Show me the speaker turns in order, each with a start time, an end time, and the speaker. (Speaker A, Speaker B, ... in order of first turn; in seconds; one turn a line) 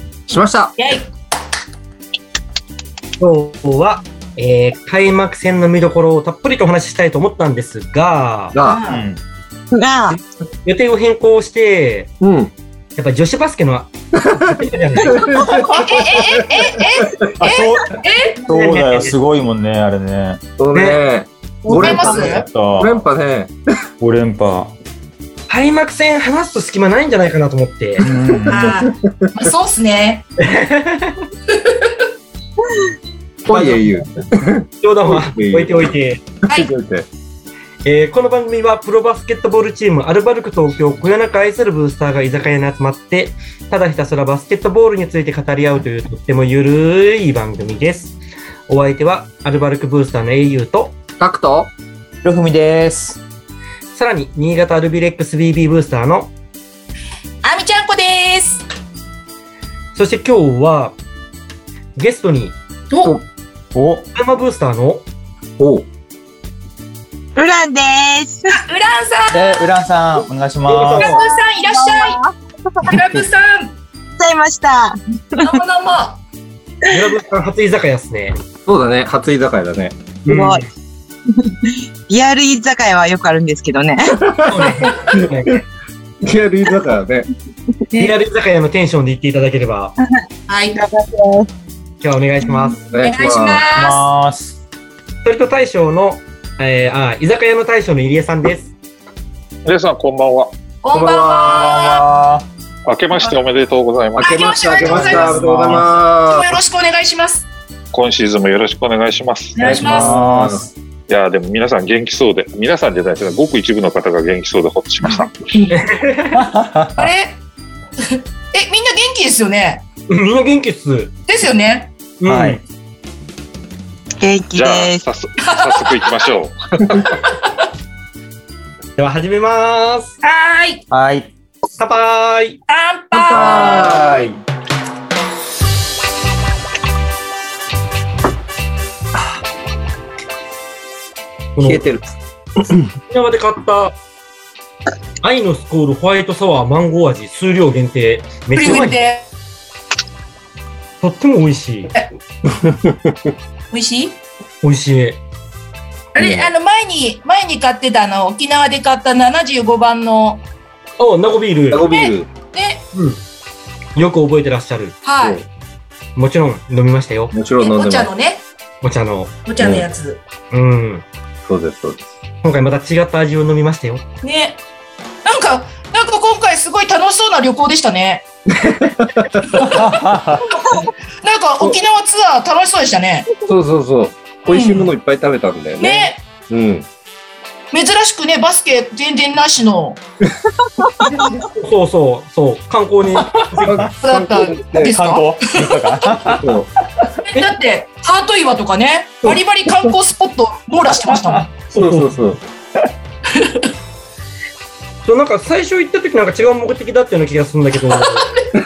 Speaker A: 0.3-0.8
Speaker B: 0.8-1.1
Speaker C: 3.2-8.6
Speaker A: 8.5-8.8
Speaker B: 8.6-9.0
Speaker D: 8.9-9.2
Speaker E: 9.7-10.2
Speaker C: 10.1-12.1
Speaker A: 12.2-12.5
Speaker C: 13.0-15.2
Speaker A: 14.2-17.1
Speaker E: 15.3-15.9
Speaker B: 15.8-18.4
Speaker D: 17.4-20.4
Speaker C: 18.5-19.2
Speaker A: 20.6-23.5
Speaker C: 20.7-21.0
Speaker B: 21.6-22.5
Speaker D: 21.7-23.0
Speaker D: 24.0-24.7
Speaker C: 25.5-28.1
Speaker D: 28.0-28.7
Speaker A: 28.3-28.8
Speaker B: 28.5-30.3
Speaker C: 30.4-31.2
Speaker B: 31.5-31.9
Speaker A: 33.5-35.9
Speaker D: 33.5-33.8
Speaker C: 34.8-36.2
Speaker A: 36.4-37.1
Speaker C: 37.8-48.2
Speaker C: 48.7-51.0
Speaker A: 51.2-51.7
Speaker D: 52.2-53.2
Speaker C: 53.9-56.3
Speaker B: 57.4-58.6
Speaker C: 59.9-61.0
Speaker C: 62.0-62.6
Speaker B: 62.9-63.2
Speaker D: 63.7-64.0
Speaker C: 64.2-65.0
Speaker A: 65.6-65.9
Speaker E: 67.4-68.5
Speaker B: 68.5-69.7
Speaker D: 69.3-71.2
Speaker C: 70.7-71.2
Speaker B: 70.9-72.2
Speaker E: 71.6-72.3
Speaker B: 72.8-73.8
Speaker E: 74.2-75.6
Speaker B: 75.4-76.2
Speaker C: 76.9-78.3
Speaker A: 78.7-80.0
Speaker C: 80.2-80.7
Speaker E: 80.3-80.7
Speaker E: 82.1-84.2
Speaker A: 84.3-85.5
Speaker C: 84.5-85.6
Speaker A: 86.2-87.3
Speaker C: 87.9-89.9
Speaker B: 90.5-90.8
Speaker E: 90.8-91.5
Speaker C: 92.0-92.8
Speaker A: 92.9-93.6
Speaker B: 92.9-94.0
Speaker D: 93.7-94.6
Speaker C: 95.2-98.7
Speaker F: 99.7-100.5
Speaker B: 100.8-102.0
Speaker A: 100.9-101.9
Speaker D: 101.5-102.5
Speaker F: 102.9-104.5
Speaker A: 104.2-106.6
Speaker B: 104.2-105.4
Speaker D: 104.9-105.8
Speaker B: 106.3-107.5
Speaker F: 107.9-109.6
Speaker B: 109.5-110.1
Speaker A: 109.6-110.7
Speaker D: 109.8-110.7
Speaker F: 111.1-115.7
Speaker C: 115.7-116.4
Speaker D: 116.3-117.1
Speaker B: 117.0-117.4
Speaker B: 118.1-119.8
Speaker C: 120.1-121.1
Speaker B: 121.3-121.9
Speaker C: 122.2-122.6
Speaker D: 122.3-122.6
Speaker E: 124.2-125.0
Speaker F: 124.5-127.2
Speaker B: 125.4-126.2
Speaker C: 129.0-130.1
Speaker B: 130.2-130.8
Speaker D: 130.9-131.3
Speaker C: 131.8-132.6
Speaker B: 132.7-134.3
Speaker A: 133.1-134.4
Speaker C: 141.6-141.9
Speaker A: 141.6-142.1
Speaker A: 142.6-142.9
Speaker C: 143.1-144.0
Speaker C: 145.2-149.1
Speaker B: 148.6-149.3
Speaker C: 151.0-151.9
Speaker A: 152.5-153.1
Speaker B: 153.7-154.2
Speaker C: 154.6-155.2
Speaker A: 156.2-156.5
Speaker B: 156.2-160.4
Speaker C: 161.0-161.9
Speaker A: 161.7-162.3
Speaker B: 161.9-162.8
Speaker C: 162.9-163.2
Speaker C: 163.9-165.0
Speaker B: 165.0-165.4
Speaker C: 166.2-167.3
Speaker A: 167.3-168.1
Speaker B: 167.6-168.4
Speaker C: 168.8-169.4
Speaker B: 169.5-170.2
Speaker A: 169.6-169.9
Speaker C: 170.5-171.1
Speaker A: 171.4-172.1
Speaker C: 172.4-174.0
Speaker B: 174.2-174.6
Speaker B: 175.2-178.2
Speaker A: 178.6-179.7
Speaker B: 179.6-179.9
Speaker D: 179.6-180.5
Speaker B: 181.2-183.3
Speaker A: 183.5-186.9
Speaker B: 184.5-184.9
Speaker B: 185.8-186.2
Speaker B: 187.7-190.0
Speaker C: 191.2-193.9
Speaker D: 193.2-193.9
Speaker A: 193.7-195.0
Speaker B: 194.0-196.2
Speaker D: 194.8-197.1
Speaker A: 196.3-196.7
Speaker B: 197.3-201.5
Speaker A: 199.2-199.9
Speaker D: 201.0-201.5
Speaker C: 201.7-202.1
Speaker A: 201.7-202.4
Speaker B: 203.3-203.7
Speaker C: 205.0-208.3